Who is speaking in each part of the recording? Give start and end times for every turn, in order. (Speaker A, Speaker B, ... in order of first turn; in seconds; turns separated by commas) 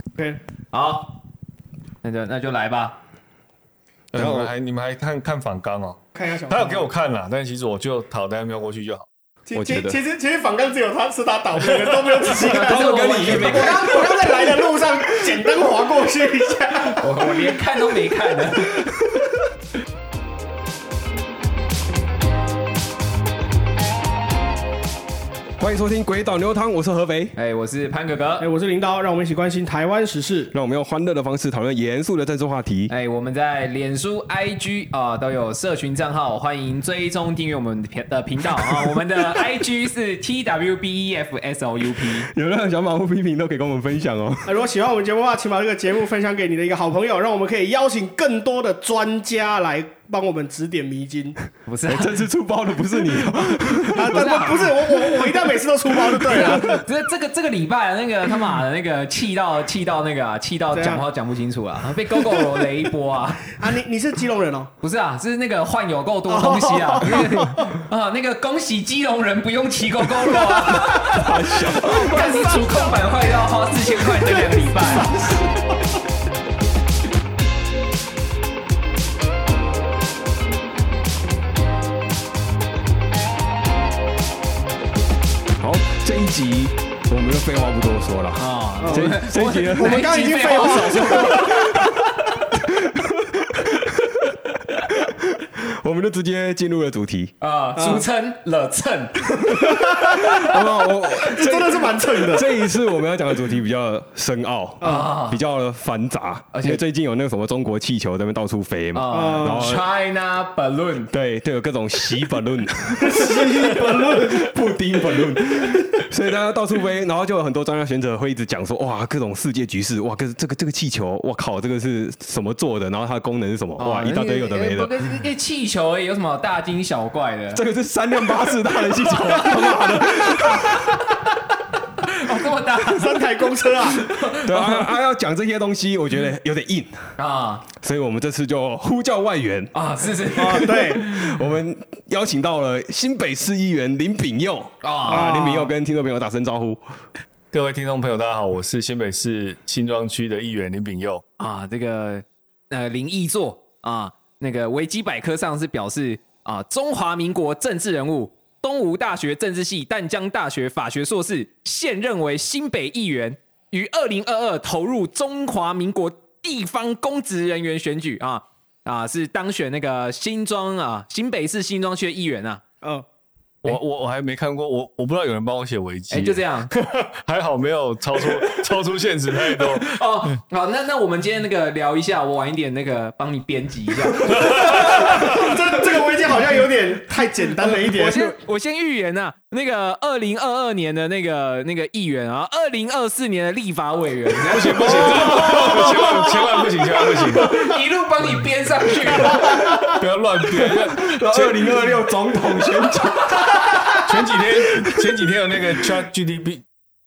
Speaker A: 0.7-1.2, Speaker A: 2.0-3.0, Speaker B: 4.1-9.1, Speaker C: 4.1-4.5, Speaker D: 6.1-6.9, Speaker D: 9.5-17.1, Speaker C: 9.5-10.0, Speaker A: 12.3-14.3, Speaker C: 12.4-14.6, Speaker A: 17.0-18.8, Speaker C: 25.6-27.4, Speaker A: 27.4-28.5, Speaker D: 28.4-30.5, Speaker C: 30.5-32.9, Speaker A: 32.9-42.3, Speaker C: 42.0-44.6, Speaker D: 44.5-51.4, Speaker A: 51.7-52.3, Speaker C: 51.9-54.7, Speaker D: 53.9-56.8, Speaker A: 54.0-55.4, Speaker A: 56.2-63.6, Speaker C: 56.3-56.8, Speaker D: 60.7-61.0, Speaker D: 62.1-62.4, Speaker D: 63.5-64.7, Speaker A: 64.8-75.2, Speaker D: 66.3-67.6, Speaker C: 71.1-72.6, Speaker D: 71.7-73.1, Speaker C: 85.6-90.2, Speaker A: 88.4-92.0, Speaker D: 88.8-89.2, Speaker D: 89.8-91.7, Speaker C: 90.8-91.9, Speaker C: 92.7-97.3, Speaker A: 97.4-100.5, Speaker D: 97.8-98.0, Speaker C: 99.4-109.9, Speaker D: 99.5-100.4, Speaker D: 101.2-102.5, Speaker D: 104.8-105.1, Speaker A: 104.8-105.4, Speaker A: 106.5-106.8, Speaker A: 108.9-111.1, Speaker D: 109.1-109.8, Speaker C: 111.1-124.9, Speaker D: 113.0-114.5, Speaker A: 123.8-127.6, Speaker C: 127.5-131.0, Speaker A: 129.2-129.6, Speaker A: 130.2-131.0, Speaker A: 132.0-134.9, Speaker D: 132.8-134.1, Speaker C: 134.4-137.2, Speaker A: 137.2-137.7, Speaker C: 137.8-139.7, Speaker A: 139.7-141.4, Speaker C: 140.2-146.8, Speaker D: 140.4-141.0, Speaker A: 144.8-145.4, Speaker D: 145.1-145.7, Speaker B: 147.5-151.2, Speaker A: 151.4-172.6, Speaker B: 173.6-180.0, Speaker A: 176.1-176.7, Speaker A: 179.6-185.5, Speaker B: 184.2-185.4, Speaker D: 184.6-188.3, Speaker A: 187.7-196.4, Speaker B: 194.5-197.5, Speaker D: 194.8-196.3, Speaker C: 195.3-196.0, Speaker A: 197.2-199.8, Speaker C: 199.1-199.4, Speaker D: 199.4-199.9, Speaker B: 199.9-202.0, Speaker C: 200.5-204.0, Speaker A: 203.0-203.6, Speaker B: 204.1-206.7, Speaker C: 204.8-205.1